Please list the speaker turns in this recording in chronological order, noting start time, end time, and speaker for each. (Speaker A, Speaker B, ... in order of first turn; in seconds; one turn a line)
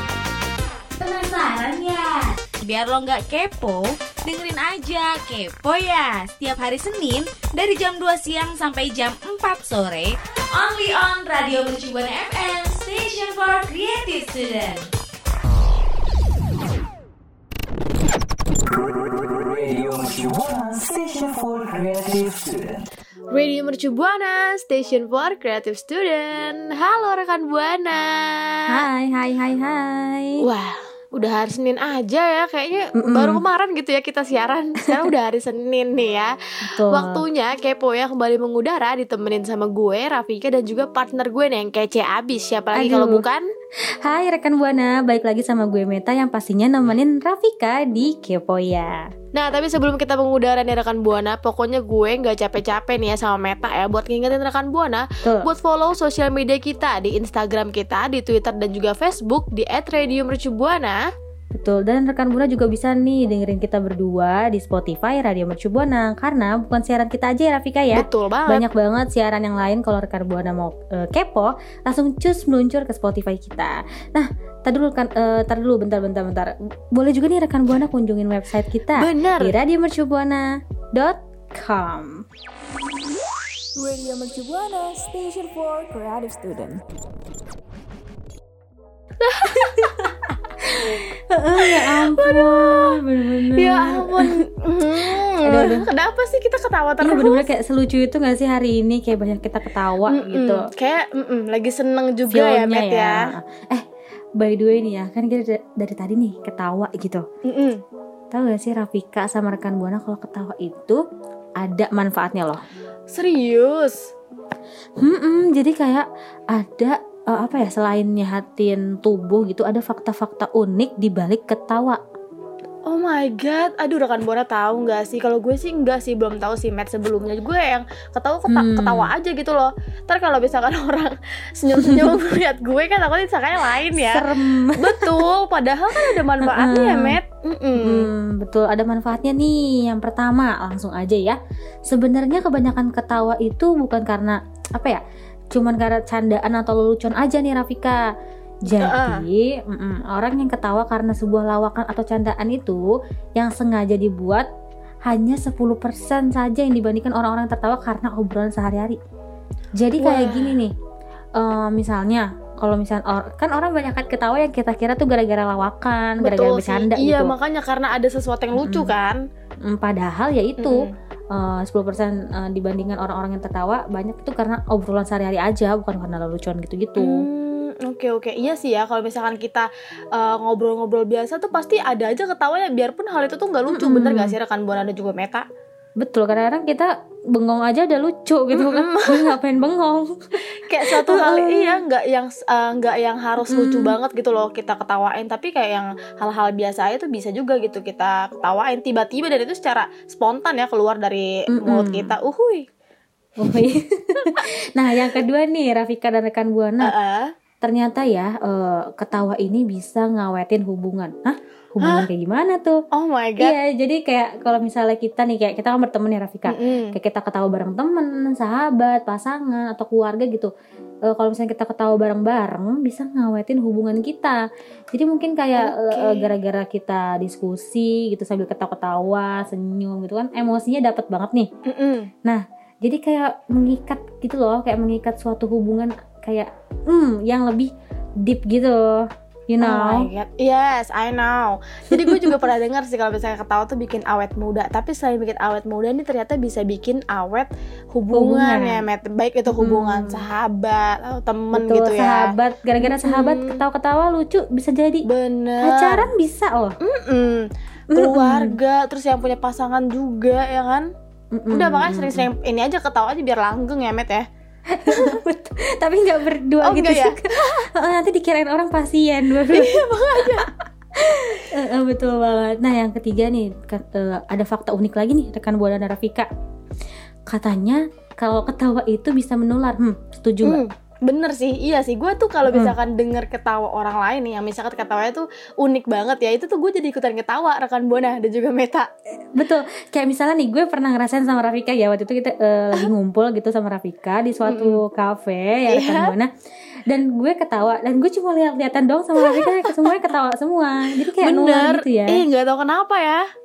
Speaker A: 1.0-14.9
Speaker B: 18.7-22.9
Speaker C: 23.3-28.6
Speaker D: 28.7-30.4
Speaker C: 30.4-36.3
Speaker D: 33.0-33.4
Speaker D: 36.6-37.2
Speaker C: 36.9-43.5
Speaker D: 42.8-43.2
Speaker D: 44.0-49.1
Speaker C: 49.3-61.0
Speaker D: 61.5-82.2
Speaker C: 67.9-68.7
Speaker C: 79.0-79.5
Speaker E: 83.8-86.8
Speaker C: 89.2-89.9
Speaker D: 89.5-94.4
Speaker C: 91.6-93.0
Speaker C: 93.5-97.5
Speaker D: 95.0-95.9
Speaker D: 97.0-100.7
Speaker C: 100.1-103.2
Speaker D: 102.3-103.8
Speaker D: 104.4-107.2
Speaker C: 107.5-107.8
Speaker D: 108.3-111.0
Speaker D: 111.6-112.6
Speaker C: 113.1-114.1
Speaker D: 115.0-122.0
Speaker C: 122.9-138.1
Speaker D: 128.5-129.1
Speaker D: 131.8-132.1
Speaker D: 133.9-135.2
Speaker D: 135.9-137.2
Speaker D: 137.8-145.0
Speaker D: 145.5-148.0
Speaker D: 148.7-152.8
Speaker C: 148.8-149.2
Speaker D: 153.4-154.5
Speaker D: 155.1-159.0
Speaker D: 159.8-160.7
Speaker C: 160.0-160.6
Speaker D: 161.4-167.3
Speaker C: 166.2-169.2
Speaker D: 168.6-168.9
Speaker D: 169.7-177.2
Speaker C: 170.6-170.9
Speaker C: 177.0-185.5
Speaker D: 183.7-184.3
Speaker D: 186.0-191.8
Speaker C: 188.5-189.3
Speaker C: 190.7-202.7
Speaker D: 193.5-193.9
Speaker D: 201.5-202.1
Speaker D: 203.4-206.9
Speaker C: 206.8-207.3
Speaker D: 207.6-212.8
Speaker C: 212.9-213.5
Speaker D: 213.4-220.5
Speaker C: 216.5-216.9
Speaker D: 221.1-224.4
Speaker D: 224.9-231.5
Speaker C: 225.6-226.3
Speaker C: 231.7-232.1
Speaker D: 232.2-237.7
Speaker D: 238.2-240.1
Speaker C: 239.6-253.6
Speaker D: 241.9-242.3
Speaker D: 248.1-248.8
Speaker D: 249.6-250.3
Speaker D: 251.5-255.1
Speaker C: 255.1-256.1
Speaker D: 255.6-256.8
Speaker C: 256.8-260.9
Speaker D: 257.9-258.6
Speaker D: 261.4-262.3
Speaker C: 261.5-264.2
Speaker D: 264.7-269.8
Speaker C: 264.9-265.2
Speaker C: 266.6-267.6
Speaker C: 269.5-270.5
Speaker D: 271.0-276.3
Speaker D: 277.3-280.6
Speaker C: 280.4-288.9
Speaker D: 282.5-282.8
Speaker D: 289.4-296.3
Speaker C: 294.5-294.8
Speaker C: 295.7-296.1
Speaker D: 296.9-302.2
Speaker C: 299.2-299.6
Speaker C: 301.2-303.2